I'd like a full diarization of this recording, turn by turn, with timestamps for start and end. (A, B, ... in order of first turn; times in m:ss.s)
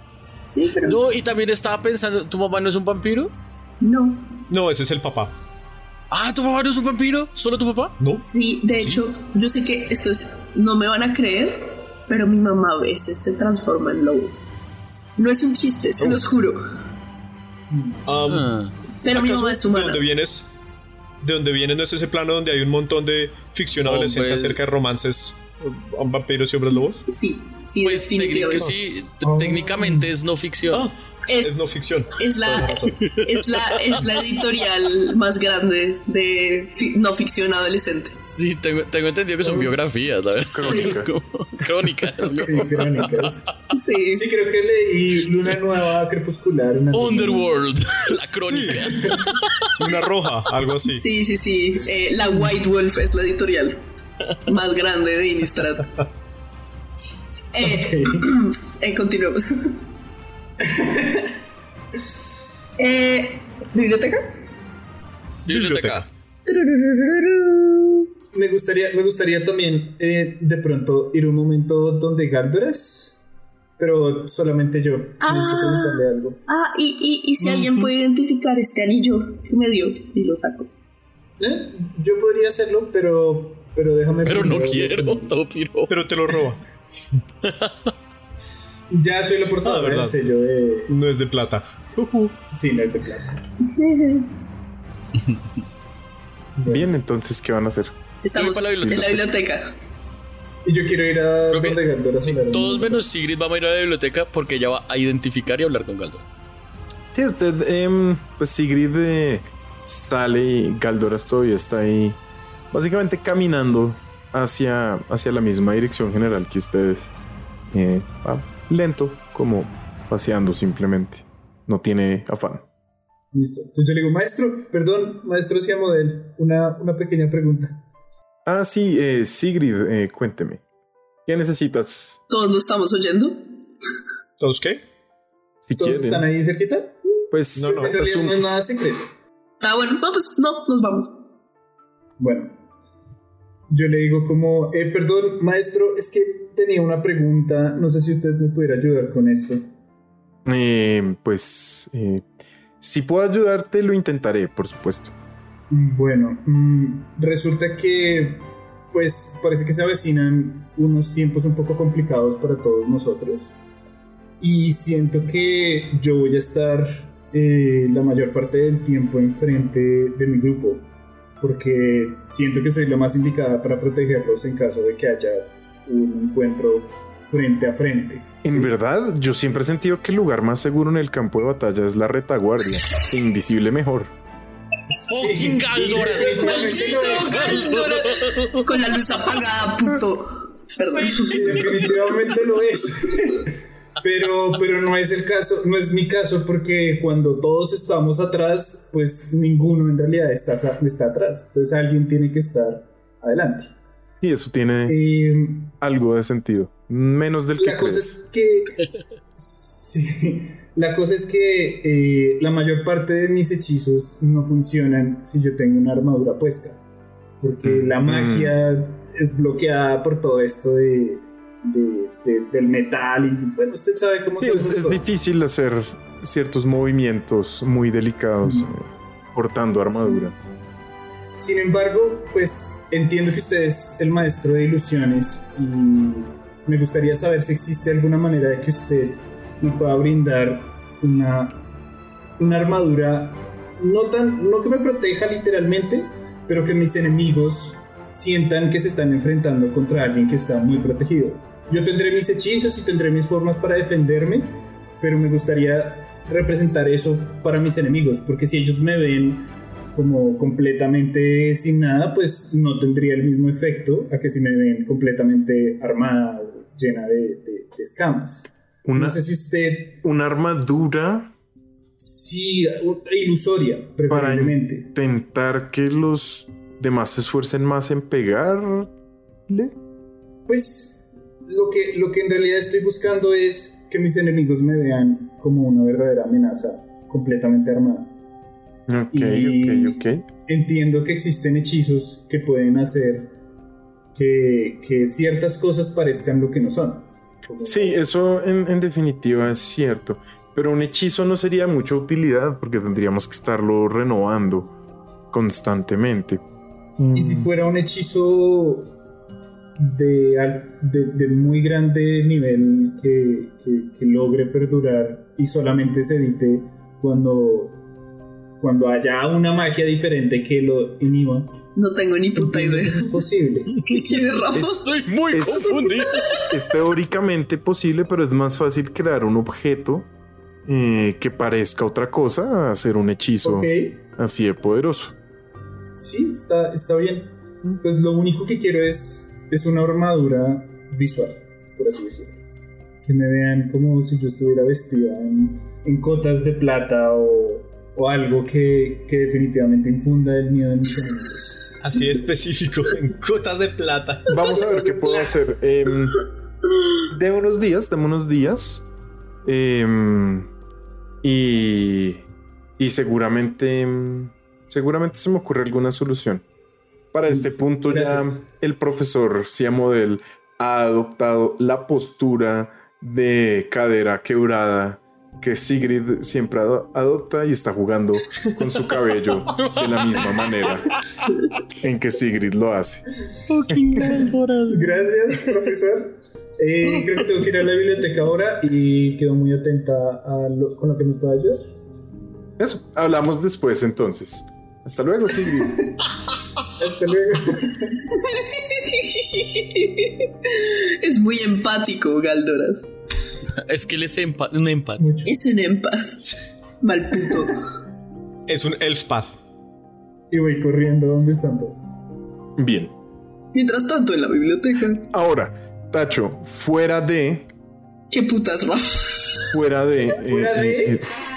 0:00.5-0:01.0 A
0:00.8-0:03.3 B
0:03.8-0:04.4 A
0:04.5-0:05.3 C
0:06.1-0:08.0 B
0:08.0-0:08.2 C
0:08.2-0:14.4 A
0:08.8-0:09.0 C
0:15.2-0:16.6 A
0:17.7-0:18.0 D
0:18.1-0:18.5 C
0:18.3-0:18.8 B
0:19.0-0:20.0 A
0:19.1-0:20.5 C
0:21.2-0:27.0 C
0:23.8-0:24.6 B
0:27.1-0:28.7 A
0:27.8-0:30.9 B
0:29.2-0:30.1 D
0:30.7-0:33.0 C
0:31.3-0:38.2 A
0:33.0-0:34.0 B
0:38.2-0:43.4 B
0:39.5-0:39.7 C
0:40.5-0:41.1 E
0:40.6-0:41.0 A
0:42.3-0:43.5 D
0:43.7-0:44.3 A
0:44.1-0:47.6 D
0:46.9-0:49.4 B
0:48.4-0:51.0 C
0:48.9-0:49.3 D
0:50.8-0:53.8 A
0:54.4-0:56.0 A
0:57.5-0:59.8 A
0:57.6-0:58.3 D
1:00.6-1:01.4 D
1:02.8-1:04.4 A
1:05.5-1:06.0 C
1:05.5-1:06.1 B
1:06.4-1:08.0 A
1:08.3-1:13.2 D
1:13.8-1:16.4 D
1:15.2-1:20.7 A
1:17.5-1:17.9 C
1:21.4-1:25.4 D
1:24.2-1:25.9 B
1:25.9-1:27.2 C
1:27.4-1:27.9 B
1:28.9-1:31.0 D
1:29.6-1:30.2 C
1:30.9-1:32.4 C
1:32.5-1:33.4 D
1:33.7-1:34.3 A
1:36.6-1:36.9 D
1:36.7-1:37.9 E
1:38.2-1:39.8 A
1:38.4-1:39.2 B
1:40.6-1:43.0 D
1:41.5-1:46.3 B
1:47.1-1:52.2 E
1:52.7-1:57.2 E
1:57.7-2:02.6 E
2:03.3-2:07.8 D
2:08.4-2:10.6 E
2:11.3-2:12.2 E
2:12.3-2:13.4 A
2:14.4-2:14.8 C
2:15.6-2:16.3 E
2:15.8-2:19.1 D
2:17.3-2:18.4 E
2:17.6-2:18.0 C
2:19.6-2:21.2 A
2:22.2-2:22.5 D
2:23.7-2:29.6 D
2:30.4-2:32.3 E
2:32.8-2:35.1 E
2:35.7-2:43.5 D
2:44.4-2:50.9 D
2:51.4-2:58.7 D
2:58.4-3:04.1 E
3:04.9-3:07.7 D
3:05.1-3:08.7 B
3:06.3-3:11.8 A
3:11.1-3:11.7 B
3:11.2-3:23.7 D
3:24.2-3:25.0 E
3:24.9-3:25.7 D
3:25.8-3:28.2 E
3:27.6-3:28.8 D
3:29.4-3:36.8 D
3:37.4-3:45.1 D
3:37.6-3:38.6 E
3:44.4-3:50.4 E
3:48.4-3:48.7 D
3:49.9-3:50.3 D
3:51.4-4:01.6 D
4:02.4-4:30.0 D
4:28.8-4:29.2 E
4:30.0-4:31.3 E
4:32.0-4:34.9 D
4:34.1-4:38.9 E
4:39.5-4:39.7 E
4:40.5-4:48.1 D
4:48.9-4:50.3 E
4:49.1-4:53.3 D
4:54.2-4:58.0 D
4:57.6-5:04.7 E
5:05.3-5:06.4 E
5:07.0-5:07.5 E
5:07.1-5:09.0 D
5:09.8-5:17.8 D
5:18.6-5:21.6 D
5:21.8-5:23.1 A
5:22.4-5:23.8 D
5:23.8-5:24.9 A
5:24.4-5:26.4 B
5:25.3-5:25.8 E
5:25.7-5:26.5 A
5:26.5-5:30.1 E
5:30.7-5:35.2 E
5:33.4-5:34.0 D
5:36.0-5:42.4 D
5:43.0-5:51.7 D
5:51.8-5:54.4 C
5:54.3-5:56.2 E
5:54.7-5:55.2 D
5:57.1-5:58.8 E
5:59.4-6:00.5 E
6:01.2-6:02.2 E
6:02.8-6:06.4 E
6:07.1-6:21.0 E
6:07.3-6:08.4 D
6:19.6-6:20.4 B
6:21.7-6:23.1 E
6:23.5-6:25.1 B
6:24.2-6:31.7 D
6:32.6-6:35.9 E
6:36.7-6:38.1 D
6:38.0-6:42.9 A
6:43.5-6:45.1 B
6:45.0-6:45.3 D
6:45.2-6:47.6 A
6:48.5-6:49.4 C
6:50.3-6:51.9 D
6:52.6-6:52.9 E
6:53.5-6:55.1 A
6:55.1-6:57.5 E
6:58.1-6:59.4 A
6:59.5-7:01.1 E
7:00.2-7:01.1 D